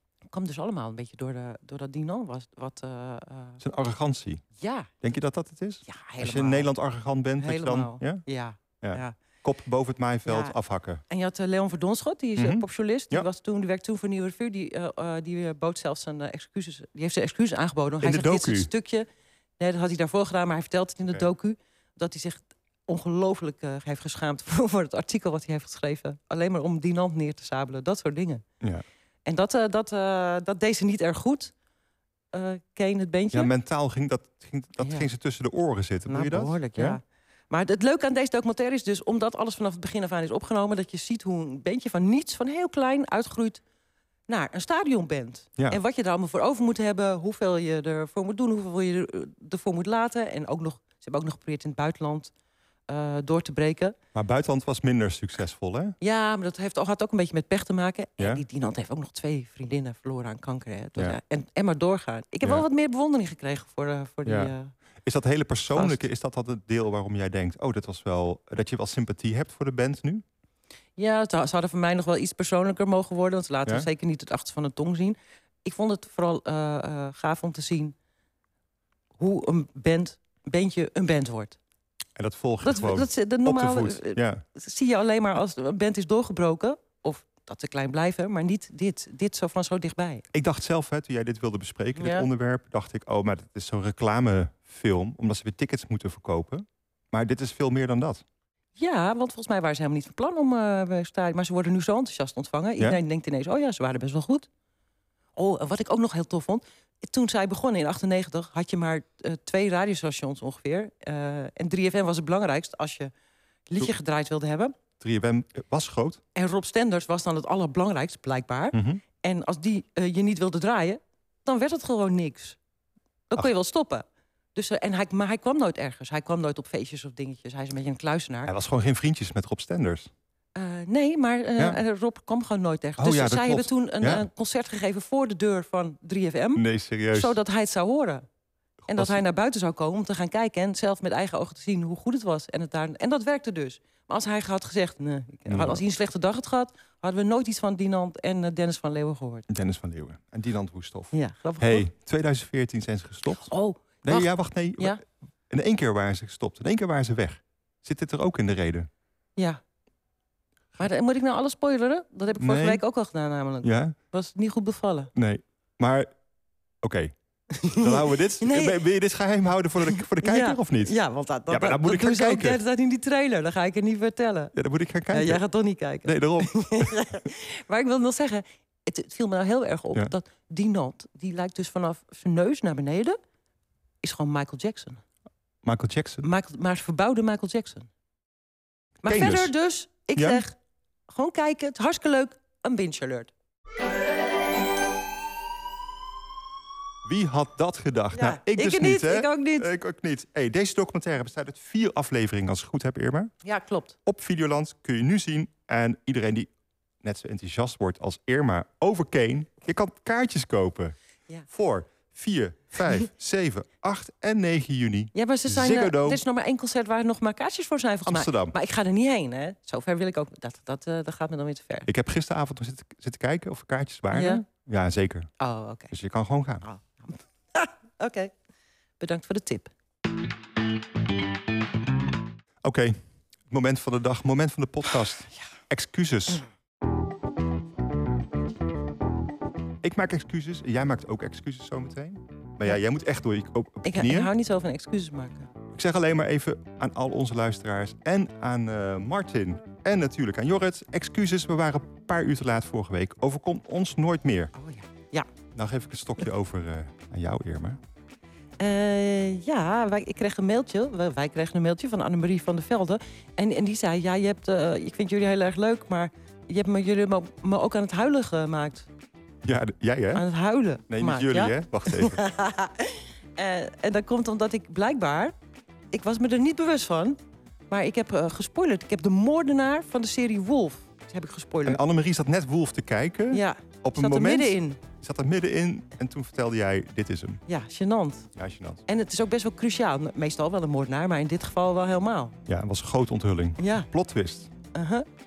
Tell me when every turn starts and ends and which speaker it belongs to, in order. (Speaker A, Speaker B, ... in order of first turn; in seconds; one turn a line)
Speaker A: 0.3-3.6
Speaker B: 3.6-4.4
Speaker A: 4.6-4.9
Speaker B: 5.0-8.2
Speaker A: 5.8-6.7
Speaker A: 7.4-9.2
Speaker B: 8.8-11.0
Speaker A: 10.3-10.6
Speaker A: 11.1-19.1
Speaker B: 12.4-13.3
Speaker B: 18.0-18.7
Speaker A: 19.6-28.4
Speaker A: 29.3-31.5
Speaker A: 32.3-33.5
Speaker B: 33.3-37.0
Speaker A: 34.8-35.1
Speaker A: 36.1-43.6
Speaker A: 44.3-52.3
Speaker A: 52.9-54.0
Speaker B: 54.1-56.0
Speaker A: 56.0-64.7
Speaker B: 64.2-64.5
Speaker B: 65.0-70.2
Speaker A: 65.7-66.0
Speaker A: 71.0-78.0
Speaker A: 79.2-81.6
Speaker B: 82.2-84.4
Speaker A: 82.6-90.2
Speaker B: 90.3-98.2
Speaker A: 92.0-92.3
Speaker A: 98.8-104.5
Speaker A: 105.4-113.1
Speaker A: 113.7-114.7
Speaker B: 115.0-116.2
Speaker A: 116.3-122.6
Speaker B: 118.7-119.0
Speaker A: 123.3-128.5
Speaker B: 128.5-130.1
Speaker A: 130.6-138.2
Speaker B: 133.0-134.3
Speaker B: 136.6-137.4
Speaker B: 138.9-139.2
Speaker A: 138.9-149.5
Speaker B: 145.5-145.8
Speaker B: 149.5-153.5
Speaker A: 151.1-151.9
Speaker A: 153.4-155.0
Speaker B: 154.0-158.9
Speaker A: 160.8-165.1
Speaker B: 162.4-162.8
Speaker B: 163.6-164.0
Speaker B: 165.2-166.1
Speaker B: 166.8-167.1
Speaker A: 167.6-168.8
Speaker B: 167.7-171.0
Speaker A: 169.9-174.5
Speaker B: 171.5-172.6
Speaker B: 174.5-175.4
Speaker A: 175.1-183.2
Speaker B: 176.0-177.0
Speaker A: 184.0-185.0
Speaker B: 185.6-186.2
Speaker A: 186.2-187.9
Speaker A: 189.0-190.6
Speaker B: 189.1-189.5
Speaker B: 190.2-190.4
Speaker A: 191.1-193.3
Speaker B: 197.1-203.3
Speaker A: 198.2-199.7
Speaker A: 203.4-204.0
Speaker B: 204.1-206.5
Speaker B: 207.0-210.9
Speaker B: 211.5-216.2
Speaker A: 215.1-221.9
Speaker B: 218.1-218.6
Speaker B: 221.9-225.3
Speaker A: 224.1-224.4
Speaker A: 225.4-225.9
Speaker B: 225.9-226.6
Speaker A: 226.6-228.3
Speaker A: 229.0-229.7
Speaker B: 232.6-233.0
Speaker B: 233.5-236.4
Speaker B: 239.8-244.3
Speaker A: 243.8-245.5
Speaker B: 245.7-254.5
Speaker A: 254.6-255.3
Speaker B: 255.5-257.8
Speaker A: 258.6-268.9
Speaker B: 269.4-270.2
Speaker A: 270.1-275.4
Speaker B: 270.9-272.2
Speaker A: 275.9-277.2
Speaker A: 277.7-281.8
Speaker B: 281.6-287.4
Speaker A: 283.3-284.8
Speaker A: 287.5-288.3
Speaker B: 288.4-288.8
Speaker A: 288.9-292.4
Speaker B: 292.5-294.5
Speaker A: 293.6-293.9
Speaker A: 294.7-295.1